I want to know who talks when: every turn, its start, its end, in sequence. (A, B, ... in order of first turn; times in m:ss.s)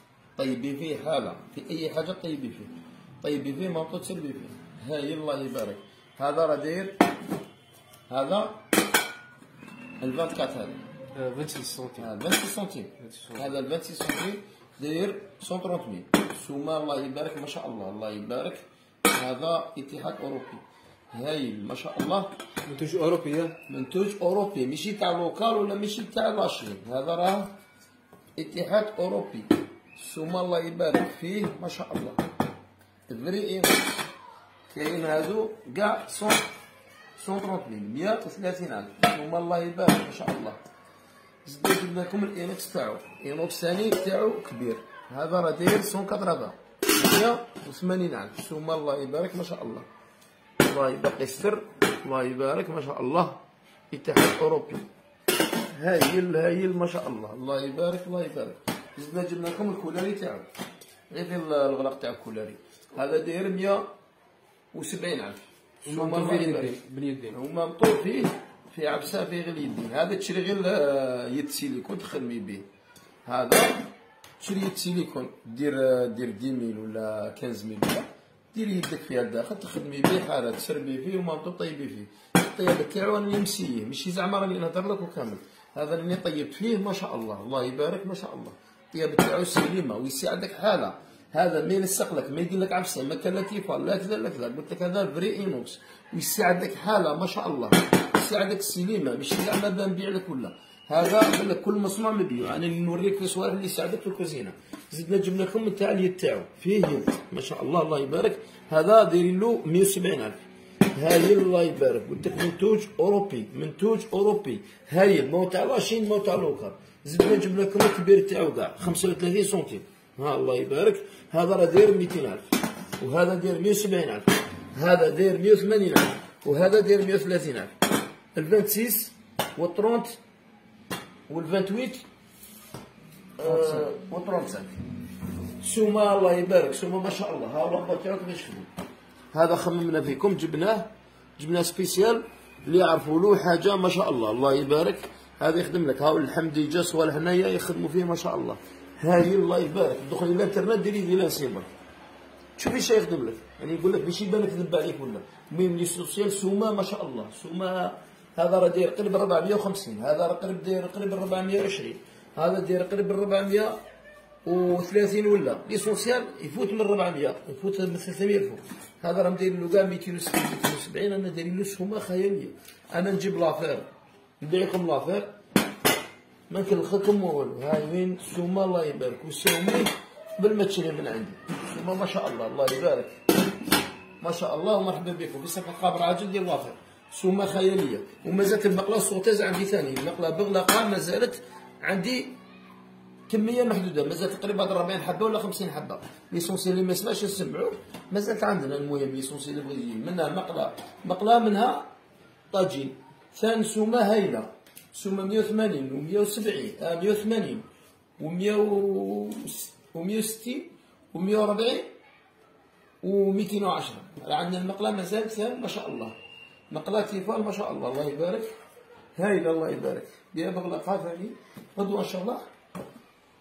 0:00.4-0:07.0 A
0:08.1-0:08.6 A
0:10.0-0:10.8 A
0:11.2-0:12.1 B
0:12.0-0:22.3 A
0:13.0-0:13.4 B
0:22.7-0:23.6 B
0:23.7-0:27.5 A
0:28.4-0:32.2 A
0:33.1-0:34.1 A
0:34.7-0:36.5 A
0:37.2-0:40.6 A
0:41.4-0:49.9 A
0:50.6-0:54.9 A
0:55.7-1:00.5 A
1:01.1-1:03.9 A
1:04.7-1:06.8 A
1:05.8-1:07.4 B
1:07.3-1:12.7 A
1:13.2-1:13.9 A
1:14.4-1:50.4 A
1:50.9-2:02.5 A
2:03.0-2:07.7 A
2:08.3-2:10.2 A
2:11.3-2:12.0 A
2:13.4-2:14.7 A
2:13.5-2:13.8 B
2:15.6-2:18.7 A
2:19.3-2:31.7 A
2:32.6-2:43.8 A
2:44.4-2:53.9 A
2:54.4-2:55.3 A
2:56.5-3:03.2 A
3:04.2-3:12.3 A
3:13.3-3:21.9 A
3:22.5-3:27.7 A
3:28.2-3:31.9 A
3:33.0-3:36.2 A
3:36.7-3:38.5 A
3:39.2-3:42.4 A